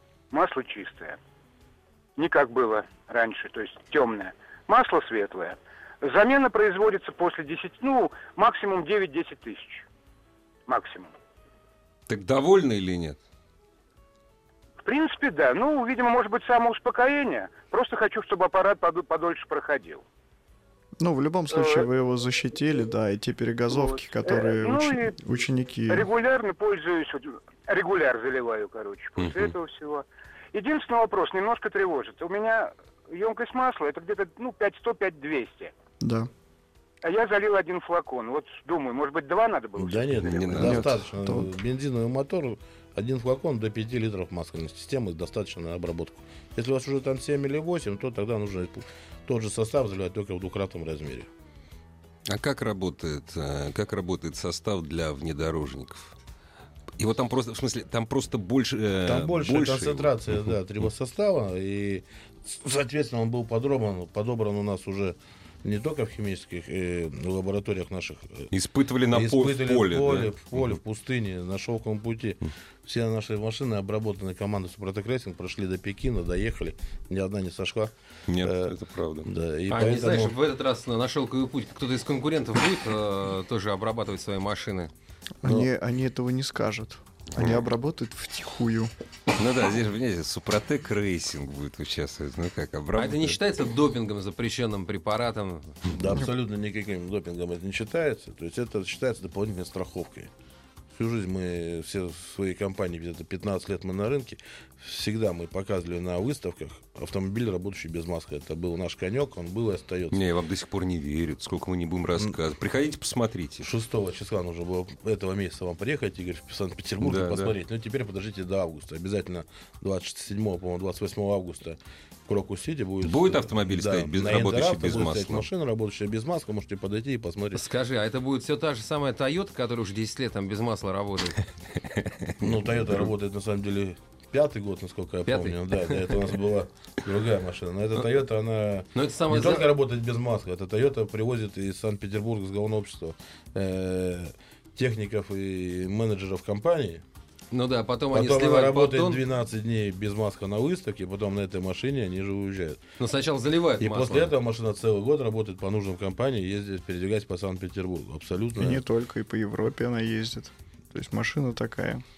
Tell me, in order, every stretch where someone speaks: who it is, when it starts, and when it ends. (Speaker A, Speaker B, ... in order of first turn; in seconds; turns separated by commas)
Speaker A: 0.3-1.2, Speaker A: 2.2-9.8, Speaker A: 10.7-11.1, Speaker B: 12.1-13.2, Speaker A: 14.8-20.0, Speaker C: 21.0-26.1, Speaker A: 21.5-21.9, Speaker A: 23.7-25.1, Speaker A: 25.9-35.7, Speaker B: 29.2-29.5, Speaker C: 36.0-36.3, Speaker A: 37.0-40.7, Speaker D: 39.8-51.3, Speaker B: 40.2-41.0, Speaker C: 40.6-41.6, Speaker B: 52.3-56.1, Speaker B: 57.0-60.5, Speaker D: 59.0-68.5, Speaker B: 68.5-70.8, Speaker D: 69.1-80.3, Speaker B: 78.3-79.3, Speaker E: 79.7-84.9, Speaker C: 85.4-88.9, Speaker D: 85.4-85.7, Speaker B: 87.3-87.7, Speaker B: 89.4-93.4, Speaker E: 93.0-95.8, Speaker D: 95.9-100.3, Speaker D: 100.9-110.2, Speaker B: 110.1-113.7, Speaker D: 113.6-127.6, Speaker B: 117.0-117.5, Speaker B: 123.0-125.5, Speaker E: 127.5-131.4, Speaker B: 132.0-133.1, Speaker D: 132.4-147.0, Speaker E: 135.2-136.2, Speaker E: 138.9-139.7, Speaker E: 147.5-149.2, Speaker D: 148.1-152.8, Speaker E: 153.0-154.3, Speaker D: 153.8-158.8, Speaker C: 158.6-162.0